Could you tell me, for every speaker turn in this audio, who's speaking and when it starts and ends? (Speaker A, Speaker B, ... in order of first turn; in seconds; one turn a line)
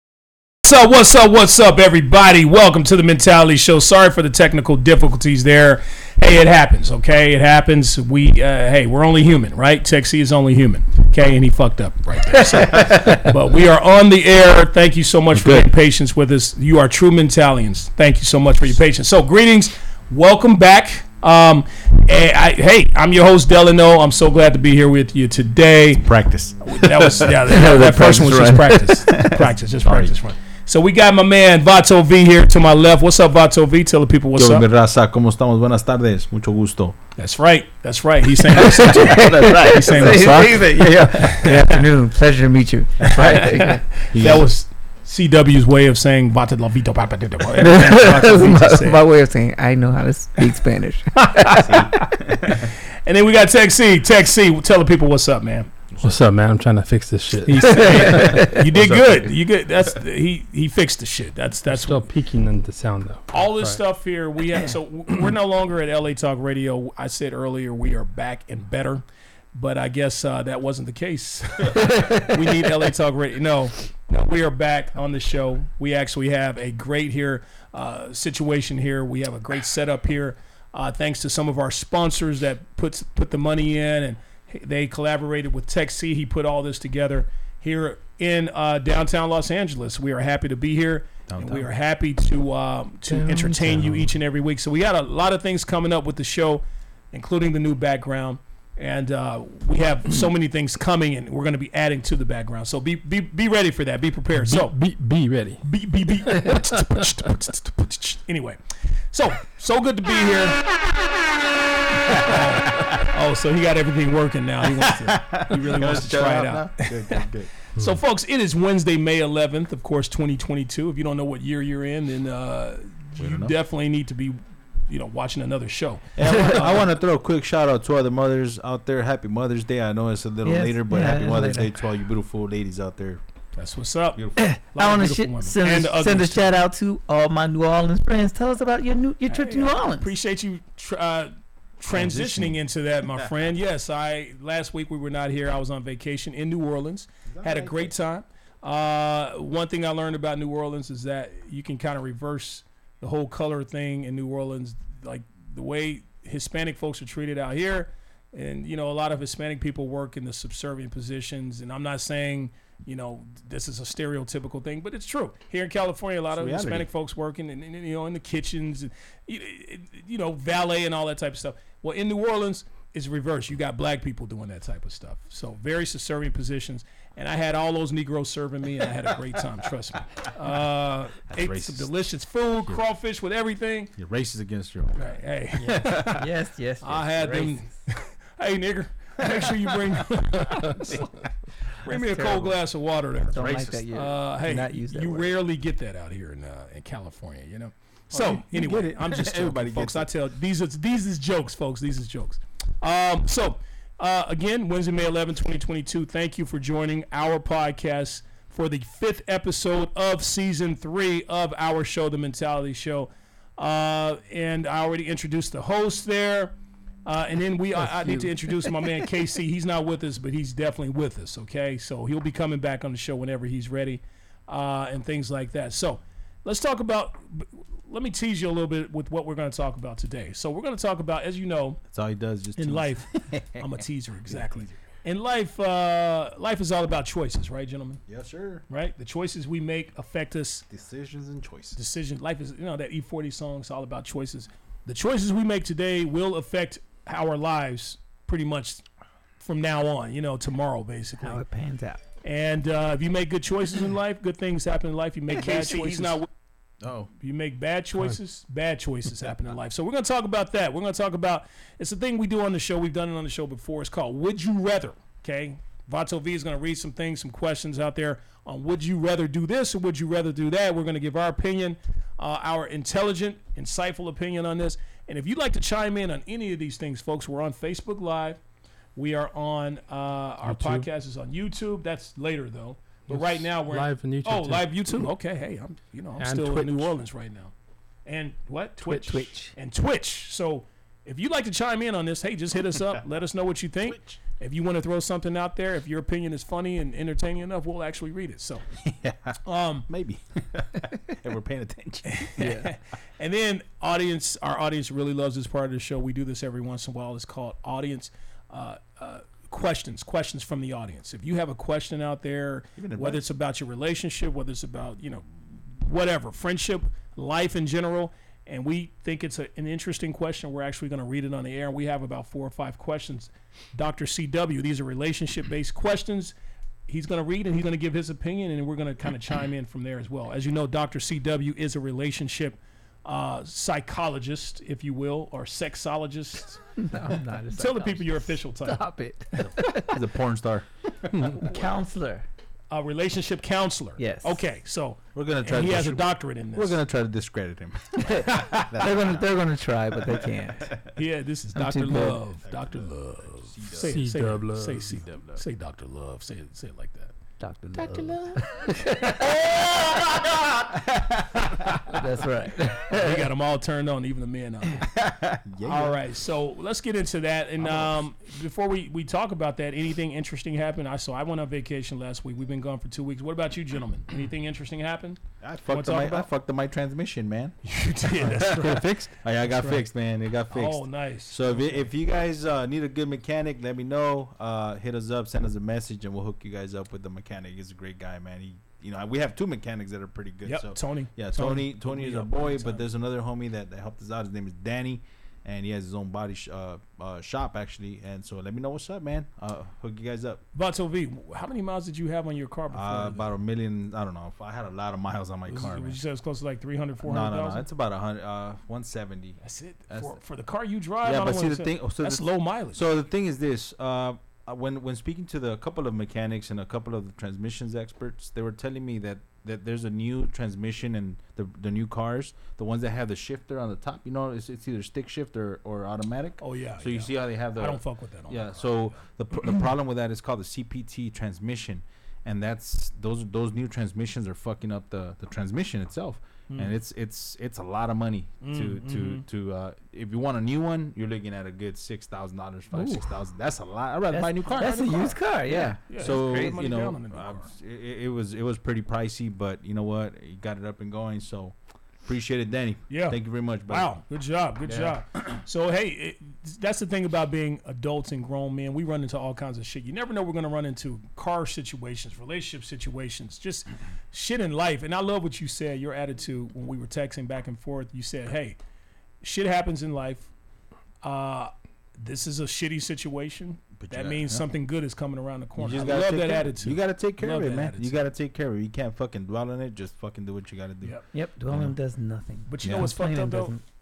Speaker A: 0.6-26.1
Speaker B: 15.3-15.7
Speaker B: 25.9-30.1
Speaker A: 26.6-34.6
Speaker B: 34.3-37.0
Speaker A: 37.2-41.8
Speaker C: 38.6-43.8
Speaker B: 38.9-41.4
Speaker B: 43.0-44.5
Speaker A: 43.1-49.0
Speaker C: 47.5-51.6
Speaker A: 51.2-55.7
Speaker B: 51.7-52.6
Speaker D: 56.0-59.3
Speaker A: 57.5-62.0
Speaker C: 57.6-58.6
Speaker D: 61.7-63.8
Speaker A: 63.3-69.0
Speaker A: 69.5-104.8
Speaker C: 71.9-72.3
Speaker B: 91.3-91.7
Speaker D: 93.1-94.1
Speaker D: 104.3-105.6
Speaker A: 105.6-110.7
Speaker A: 111.9-126.9
Speaker B: 112.1-112.9
Speaker B: 114.7-117.5
Speaker B: 123.2-123.6
Speaker B: 126.2-133.2
Speaker C: 130.4-131.7
Speaker A: 133.6-136.6
Speaker B: 134.1-134.4
Speaker C: 134.3-140.1
Speaker A: 139.3-183.9
Speaker B: 141.9-142.6
Speaker B: 147.3-147.9
Speaker B: 166.3-166.9
Speaker B: 181.3-181.9
Speaker B: 184.0-186.2
Speaker A: 184.9-186.3
Speaker C: 185.6-187.7
Speaker A: 186.8-191.1
Speaker B: 189.2-189.9
Speaker B: 190.7-191.1
Speaker A: 191.8-216.5
Speaker C: 191.8-192.6
Speaker C: 193.3-195.4
Speaker B: 198.1-200.1
Speaker A: 217.0-231.8
Speaker D: 217.9-218.3
Speaker B: 231.9-233.7
Speaker A: 232.6-238.0
Speaker B: 238.1-238.6
Speaker A: 238.7-240.7
Speaker B: 240.7-241.8
Speaker A: 241.8-248.8
Speaker A: 249.4-251.4
Speaker C: 251.2-252.0
Speaker A: 252.2-256.3
Speaker B: 255.4-256.1
Speaker B: 256.8-257.1
Speaker A: 257.2-278.4
Speaker A: 278.9-287.5
Speaker D: 280.4-280.9
Speaker D: 283.1-284.7
Speaker D: 286.2-286.9
Speaker A: 288.1-298.7
Speaker C: 288.8-289.5
Speaker B: 293.9-294.1
Speaker B: 298.8-302.2
Speaker A: 299.4-299.9
Speaker A: 302.0-326.3
Speaker C: 302.4-302.7
Speaker B: 312.8-313.2
Speaker A: 326.9-336.6
Speaker C: 336.8-340.0
Speaker A: 337.5-338.9
Speaker B: 339.8-340.6
Speaker C: 341.2-342.2
Speaker A: 342.7-346.8
Speaker C: 344.0-344.4
Speaker B: 345.1-349.2
Speaker C: 348.0-350.7
Speaker B: 350.0-350.9
Speaker A: 350.9-357.1
Speaker C: 351.5-352.2
Speaker B: 352.4-354.1
Speaker D: 353.8-355.0
Speaker B: 354.8-355.4
Speaker C: 357.4-359.4
Speaker A: 358.9-360.7
Speaker B: 360.7-361.6
Speaker C: 361.9-363.3
Speaker A: 362.7-364.9
Speaker B: 364.8-366.0
Speaker A: 365.6-376.3
Speaker B: 367.6-368.0
Speaker B: 375.4-377.6
Speaker A: 377.6-379.0
Speaker B: 378.2-378.6
Speaker D: 378.2-379.1
Speaker B: 379.2-400.4
Speaker A: 379.5-379.8
Speaker A: 380.5-381.8
Speaker A: 390.4-392.8
Speaker A: 400.5-403.3
Speaker B: 402.7-406.0
Speaker A: 405.5-407.6
Speaker B: 407.0-409.4
Speaker A: 409.4-412.8
Speaker B: 409.9-410.2
Speaker B: 411.0-445.2
Speaker A: 426.4-429.0
Speaker A: 438.4-439.2
Speaker C: 442.7-443.1
Speaker C: 444.1-446.3
Speaker A: 444.6-447.5
Speaker B: 445.9-453.9
Speaker A: 452.9-468.6
Speaker B: 454.6-455.0
Speaker A: 469.2-470.3
Speaker A: 471.0-478.0
Speaker B: 473.8-474.4
Speaker B: 475.6-481.0
Speaker C: 481.1-483.6
Speaker B: 481.5-481.7
Speaker A: 482.5-483.5
Speaker B: 482.6-482.9